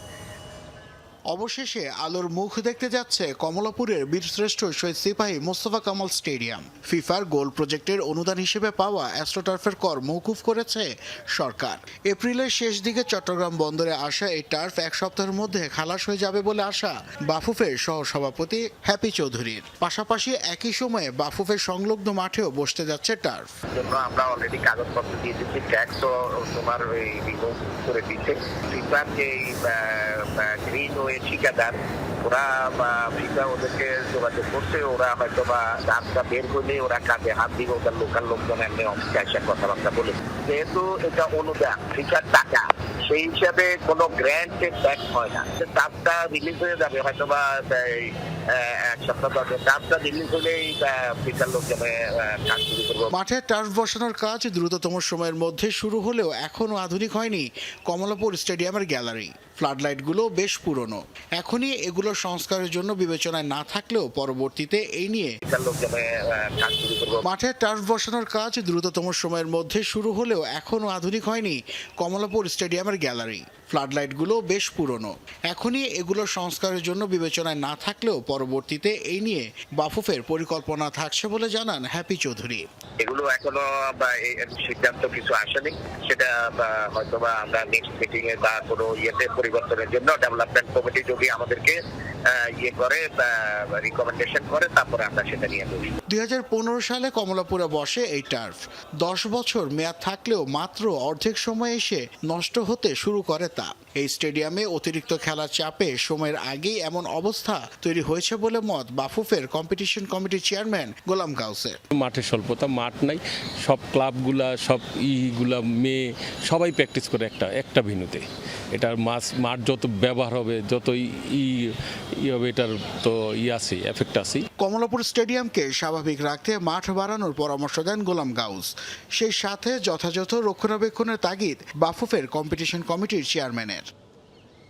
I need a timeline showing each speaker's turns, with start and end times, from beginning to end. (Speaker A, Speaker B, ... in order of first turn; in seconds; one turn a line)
Speaker A: 1.3-23.4
Speaker B: 23.7-53.1
Speaker A: 53.1-65.3
Speaker B: 65.4-67.2
Speaker A: 67.2-82.7
Speaker B: 83.0-91.8
Speaker B: 92.3-96.0
Speaker A: 96.1-111.8
Speaker C: 111.9-121.6
Speaker C: 122.2-124.5
Speaker A: 124.6-133.9